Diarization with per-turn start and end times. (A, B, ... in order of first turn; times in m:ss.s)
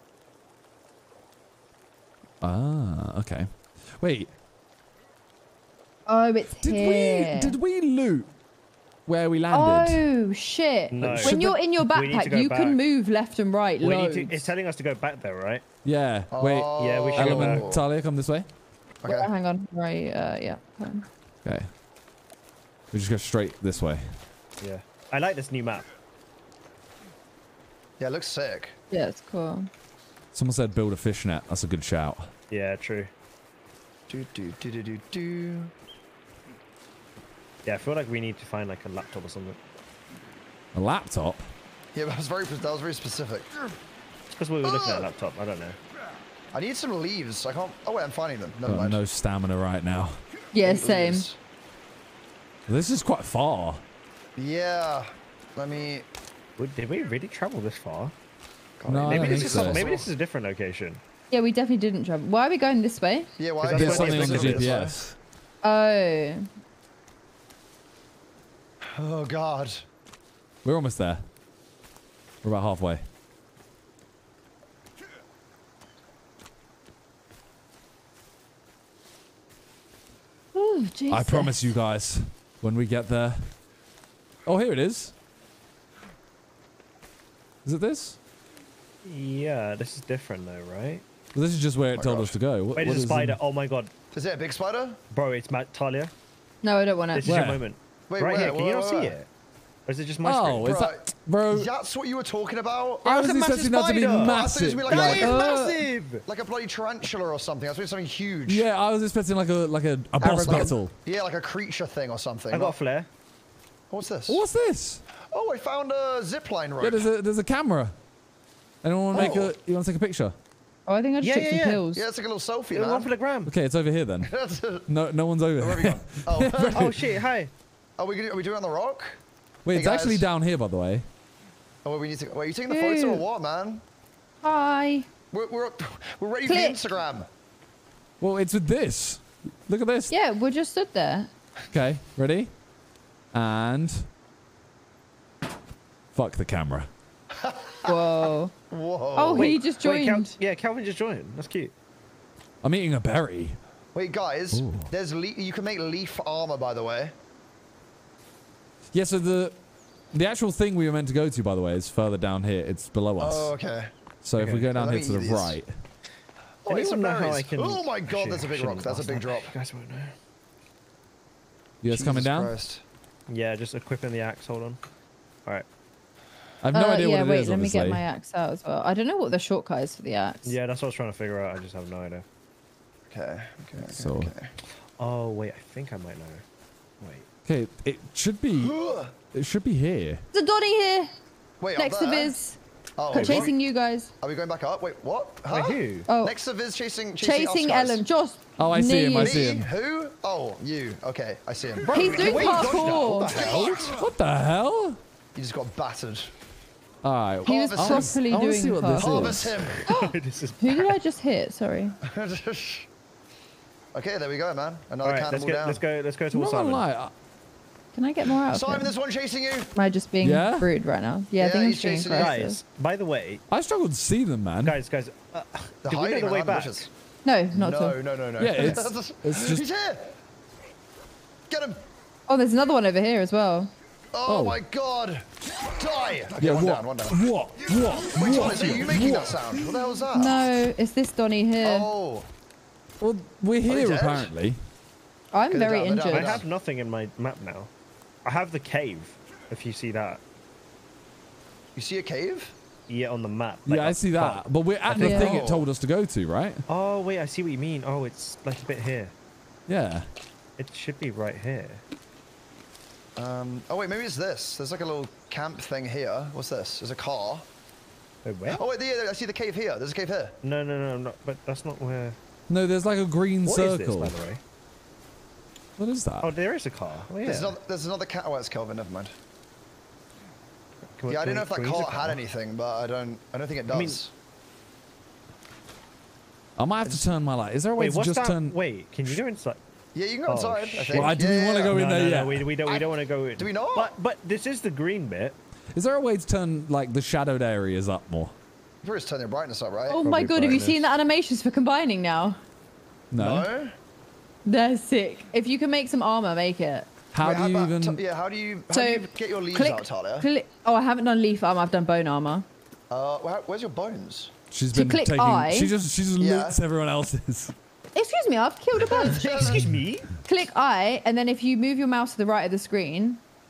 0:02.4-0:04.3 A
0:06.1-0:07.6 B
0:06.6-0:08.3 A
0:09.1-0:10.0 A
0:09.5-0:14.4 B
0:10.9-0:12.8 C
0:11.1-0:11.6 A
0:13.8-0:15.6 C
0:15.8-0:18.5 A
0:16.3-0:17.8 D
0:16.8-0:17.7 C
0:19.0-0:19.3 D
0:19.0-0:21.1 B
0:21.4-0:21.7 A
0:22.9-0:24.1 A
0:24.6-0:25.9 C
0:28.0-0:28.8 D
0:28.9-0:29.7 B
0:30.3-0:32.3 A
0:32.5-0:33.1 C
0:34.1-0:35.7 D
0:37.6-0:39.6 C
0:40.7-0:41.5 A
0:41.9-0:43.5 D
0:44.4-0:45.8 C
0:44.6-0:45.1 D
0:46.5-0:49.0 D
0:48.7-0:50.2 A
0:50.5-0:51.3 B
0:50.6-0:51.4 D
0:52.7-0:53.8 A
0:54.4-0:56.1 D
0:56.6-0:58.1 C
0:58.8-1:00.1 D
0:58.9-0:59.9 A
0:59.0-1:01.0 C
1:01.3-1:03.3 B
1:03.4-1:05.0 D
1:03.6-1:04.8 C
1:03.7-1:05.1 A
1:05.6-1:06.5 B
1:08.8-1:09.8 D
1:10.6-1:11.2 A
1:12.4-1:13.0 A
1:20.5-1:21.6 B
1:21.1-1:23.5 A
1:24.5-1:25.1 A
1:27.6-1:28.2 A
1:29.0-1:31.0 C
1:31.3-1:33.4 A
1:31.9-1:32.4 D
1:32.8-1:33.9 C
1:34.1-1:35.0 D
1:35.1-1:36.1 C
1:36.6-1:37.3 B
1:37.1-1:39.3 C
1:37.2-1:37.6 A
1:38.1-1:39.2 D
1:39.9-1:40.7 C
1:40.2-1:41.7 A
1:40.6-1:43.1 D
1:43.0-1:45.5 A
1:43.0-1:46.2 C
1:44.2-1:48.7 D
1:45.2-1:45.8 B
1:48.5-1:50.9 A
1:50.2-1:52.8 D
1:50.2-1:50.7 B
1:52.5-1:53.1 C
1:53.9-1:54.4 D
1:54.3-1:55.0 A
1:55.3-1:57.1 D
1:56.8-1:58.0 A
1:58.8-2:00.4 A
1:59.1-1:59.5 D
2:00.9-2:02.0 B
2:01.2-2:01.8 C
2:01.9-2:03.1 D
2:02.7-2:03.5 C
2:03.5-2:04.3 A
2:04.2-2:04.9 D
2:04.9-2:07.0 A
2:05.6-2:07.0 D
2:06.7-2:07.5 C
2:08.0-2:09.2 D
2:09.6-2:11.1 A
2:09.7-2:10.3 D
2:11.8-2:13.8 D
2:12.7-2:13.2 B
2:14.4-2:15.1 B
2:15.3-2:17.3 D
2:16.5-2:16.8 B
2:18.2-2:20.1 A
2:20.1-2:21.3 B
2:21.7-2:22.5 A
2:23.3-2:24.1 A
2:26.1-2:26.9 A
2:27.3-2:29.6 D
2:27.8-2:28.5 B
2:29.2-2:30.3 B
2:29.3-2:31.7 C
2:32.6-2:33.6 A
2:33.9-2:37.2 D
2:34.5-2:34.9 A
2:38.9-2:39.6 A
2:40.1-2:43.5 A
2:43.2-2:43.9 D
2:44.2-2:45.7 A
2:44.4-2:44.7 C
2:44.7-2:45.6 D
2:46.6-2:49.5 D
2:46.7-2:50.2 C
2:51.8-2:52.5 A
2:51.9-2:52.8 D
2:53.3-2:54.8 C
2:56.6-2:58.0 A
2:56.7-3:00.6 B
3:00.4-3:02.2 C
3:03.1-3:04.5 D
3:03.8-3:04.3 A
3:05.0-3:06.4 C
3:07.0-3:07.2 C
3:07.5-3:08.8 A
3:08.6-3:09.1 D
3:09.3-3:10.2 A
3:10.3-3:11.1 B
3:11.6-3:12.4 D
3:11.8-3:12.6 B
3:13.0-3:13.6 D
3:13.1-3:14.1 B
3:13.1-3:13.5 C
3:14.2-3:18.0 D
3:15.5-3:16.1 C
3:16.1-3:16.4 B
3:17.2-3:19.4 B
3:18.6-3:19.7 A
3:19.2-3:24.0 D
3:21.9-3:23.9 C
3:21.9-3:23.5 B
3:23.4-3:25.0 A
3:25.4-3:26.3 D
3:27.0-3:29.7 A
3:27.4-3:28.2 D
3:27.5-3:32.0 B
3:29.0-3:29.9 D
3:29.7-3:31.0 C
3:32.0-3:32.9 D
3:33.9-3:35.8 D
3:35.0-3:36.8 C
3:36.3-3:37.1 A
3:37.9-3:38.9 B
3:38.5-3:39.7 D
3:39.8-3:42.6 B
3:40.2-3:40.7 A
3:41.4-3:42.4 D
3:42.1-3:43.4 C
3:43.5-3:44.8 A
3:44.6-3:46.9 C
3:45.8-3:46.9 D
3:47.2-3:48.0 B
3:47.5-3:50.2 D
3:48.4-3:49.6 A
3:51.5-3:51.8 D
3:52.3-3:53.7 B
3:54.1-3:57.3 D
3:54.3-3:54.6 A
3:56.4-3:59.4 A
3:58.1-4:00.5 D
4:00.1-4:01.9 B
4:01.6-4:02.3 D
4:03.0-4:04.6 A
4:03.7-4:04.3 D
4:05.3-4:06.4 B
4:05.5-4:06.5 D
4:06.1-4:07.7 C
4:08.2-4:10.2 C
4:11.8-4:12.5 D
4:12.9-4:15.4 C
4:13.7-4:16.6 A
4:15.0-4:15.4 B
4:15.0-4:15.7 D
4:16.7-4:19.1 C
4:19.7-4:20.1 A
4:20.6-4:21.8 C
4:23.2-4:27.5 D
4:28.2-4:28.6 C
4:28.5-4:30.4 D
4:30.4-4:32.2 C
4:32.5-4:34.2 A
4:33.4-4:34.4 C
4:35.8-4:36.3 A
4:36.2-4:37.6 C
4:37.2-4:39.2 D
4:40.8-4:42.2 C
4:41.1-4:44.1 D
4:43.7-4:44.0 C
4:46.6-4:48.6 A
4:47.8-4:49.6 C
4:50.0-4:51.8 D
4:50.3-4:55.4 C
4:50.9-4:52.4 A
4:52.6-4:53.9 D
4:55.7-4:58.3 A
4:58.8-5:00.0 D
4:59.9-5:02.4 B
5:00.0-5:00.8 C
5:03.1-5:03.5 A
5:03.2-5:03.7 D
5:04.5-5:06.9 B
5:07.1-5:08.0 A
5:07.2-5:10.3 D
5:08.7-5:12.5 B
5:12.9-5:14.3 D
5:14.5-5:17.5 A
5:14.7-5:15.7 B
5:16.2-5:16.6 D
5:18.0-5:19.5 B
5:18.8-5:19.7 D
5:19.0-5:20.1 C
5:20.2-5:23.2 B